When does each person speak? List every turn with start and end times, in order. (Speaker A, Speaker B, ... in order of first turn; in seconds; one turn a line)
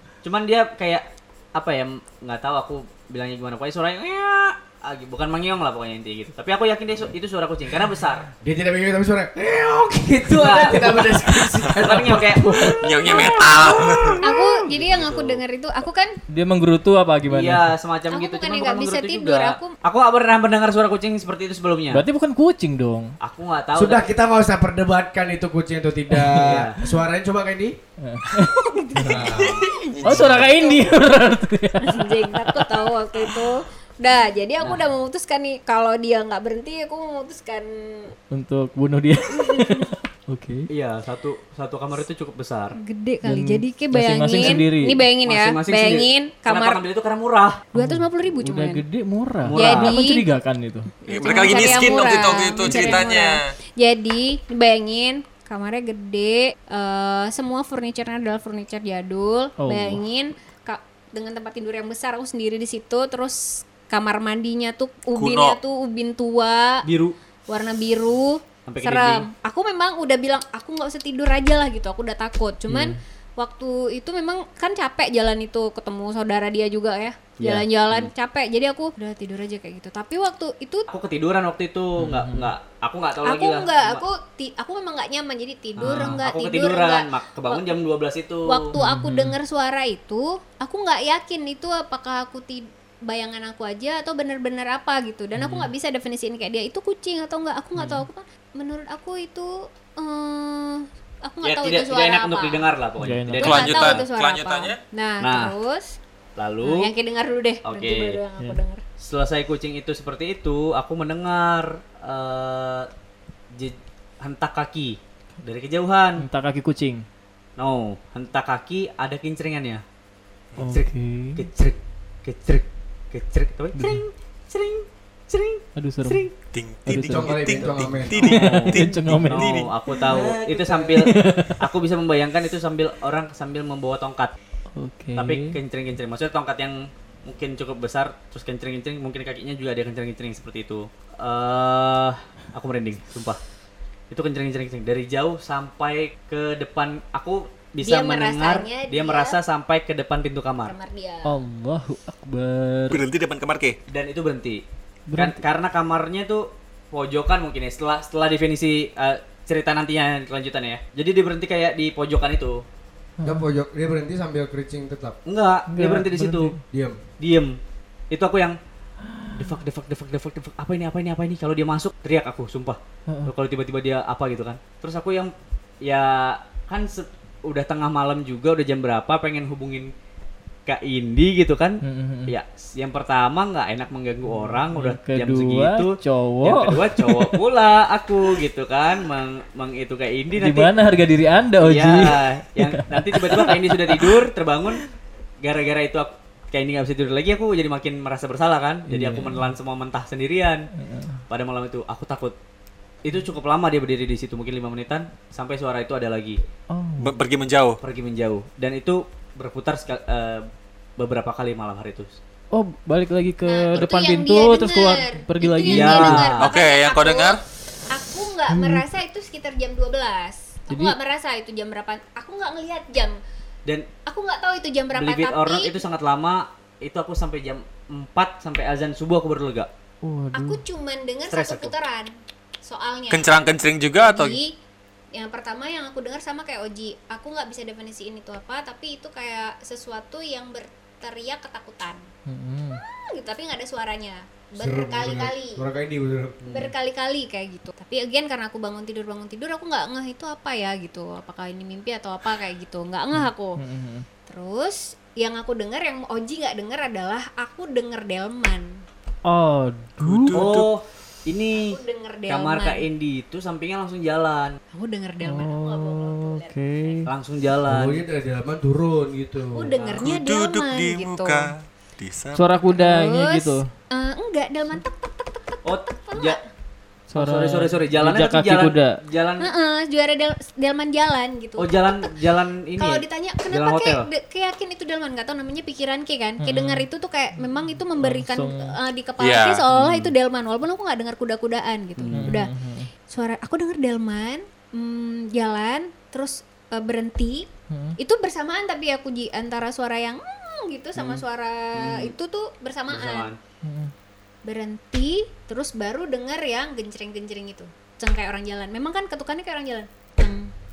Speaker A: 0.2-8.3
Speaker B: 8.4-12.8
Speaker A: 10.2-11.2
Speaker A: 11.8-15.4
Speaker C: 12.7-14.3
Speaker D: 13.1-13.4
Speaker D: 14.2-16.2
Speaker E: 16.3-17.7
Speaker A: 17.3-22.0
Speaker D: 18.1-19.7
Speaker E: 21.9-23.1
Speaker A: 23.2-24.1
Speaker B: 23.7-27.8
Speaker A: 26.3-26.8
Speaker E: 28.0-29.2
Speaker D: 28.5-31.0
Speaker B: 29.0-29.6
Speaker C: 29.2-30.5
Speaker E: 30.0-32.7
Speaker D: 31.8-38.1
Speaker A: 34.6-34.9
Speaker E: 38.3-40.7
Speaker D: 39.4-39.8
Speaker A: 40.7-42.8
Speaker D: 42.8-46.8
Speaker E: 43.2-45.0
Speaker A: 44.4-44.6
Speaker A: 45.2-47.6
Speaker D: 47.7-48.8
Speaker E: 47.7-50.9
Speaker A: 49.5-50.0
Speaker D: 49.5-50.2
Speaker C: 51.0-53.5
Speaker D: 51.1-66.8
Speaker E: 59.6-60.0
Speaker C: 65.1-65.6
Speaker A: 66.8-67.1
Speaker D: 67.5-80.9
Speaker A: 68.7-69.2
Speaker E: 72.7-73.0
Speaker A: 77.4-78.1
Speaker A: 80.9-84.0
Speaker E: 82.0-82.5
Speaker D: 83.2-87.7
Speaker A: 85.8-88.7
Speaker E: 85.8-86.2
Speaker D: 88.5-102.7
Speaker E: 88.7-89.4
Speaker E: 95.4-95.7
Speaker E: 97.8-98.0
Speaker A: 101.4-104.0
Speaker E: 103.0-103.6
Speaker C: 103.4-104.8
Speaker D: 103.4-106.0
Speaker A: 105.2-105.5
Speaker A: 106.4-106.9
Speaker D: 106.6-108.8
Speaker A: 107.6-108.2
Speaker A: 109.0-112.9
Speaker A: 113.5-116.2
Speaker E: 116.2-117.0
Speaker A: 117.6-119.8
Speaker E: 120.6-121.5
Speaker A: 120.7-126.3
Speaker E: 123.8-124.0
Speaker E: 125.8-126.2
Speaker C: 126.5-129.7
Speaker E: 126.8-127.5
Speaker B: 127.0-128.2
Speaker A: 128.2-134.3
Speaker E: 128.2-129.7
Speaker B: 130.1-131.1
Speaker E: 130.9-131.6
Speaker E: 134.8-135.6
Speaker A: 135.2-143.4
Speaker A: 144.1-150.8
Speaker D: 147.8-149.4
Speaker D: 150.6-151.4
Speaker E: 151.2-153.0
Speaker C: 152.9-153.8
Speaker A: 153.9-154.6
Speaker E: 155.1-155.4
Speaker A: 155.2-162.6
Speaker E: 163.2-163.4
Speaker B: 163.2-165.2
Speaker A: 165.2-166.5
Speaker E: 165.7-166.6
Speaker B: 166.7-167.0
Speaker A: 167.2-167.6
Speaker A: 168.1-168.6
Speaker E: 169.2-169.4
Speaker A: 169.3-179.9
Speaker A: 180.7-190.7
Speaker E: 181.8-182.3
Speaker E: 184.3-187.4
Speaker E: 190.4-194.2
Speaker A: 191.6-194.8
Speaker A: 195.4-200.7
Speaker E: 198.9-199.5
Speaker E: 200.7-201.2
Speaker A: 201.3-202.3
Speaker A: 203.0-206.4
Speaker E: 206.7-207.1
Speaker C: 207.0-207.8
Speaker A: 207.8-210.4
Speaker A: 211.0-212.2
Speaker E: 212.5-216.3
Speaker D: 213.4-217.3
Speaker A: 215.7-216.5
Speaker C: 216.4-217.4
Speaker D: 217.9-223.2
Speaker E: 218.5-218.8
Speaker E: 220.7-220.9
Speaker D: 224.0-225.7
Speaker A: 224.9-229.7
Speaker E: 230.0-230.6
Speaker D: 230.3-233.3
Speaker A: 231.3-231.7
Speaker C: 233.1-234.4
Speaker D: 234.0-234.5
Speaker D: 235.1-242.1
Speaker E: 242.2-242.8
Speaker D: 242.7-245.6
Speaker B: 244.6-246.6
Speaker A: 246.4-246.7
Speaker D: 246.5-253.6
Speaker E: 253.1-254.0
Speaker D: 254.3-258.8
Speaker E: 259.2-260.5
Speaker C: 260.0-260.7
Speaker A: 260.3-264.6
Speaker D: 261.6-262.8
Speaker D: 264.7-267.0
Speaker E: 265.2-267.1
Speaker A: 267.1-268.0
Speaker B: 267.6-269.8
Speaker D: 269.5-271.5
Speaker A: 269.8-270.1
Speaker C: 270.0-272.5
Speaker E: 272.3-273.7
Speaker D: 272.7-276.4
Speaker A: 275.6-276.4
Speaker E: 277.1-279.0
Speaker A: 277.1-279.5
Speaker D: 279.4-282.1
Speaker A: 281.6-284.1
Speaker D: 282.8-292.5
Speaker E: 286.4-286.9
Speaker E: 287.9-288.7
Speaker C: 289.2-289.7
Speaker A: 289.7-290.1
Speaker A: 292.0-292.4
Speaker E: 292.1-292.9
Speaker D: 293.1-303.3
Speaker E: 297.7-298.0
Speaker A: 301.0-301.2
Speaker A: 301.7-302.1
Speaker A: 302.9-303.4
Speaker E: 303.6-303.9
Speaker D: 304.4-310.5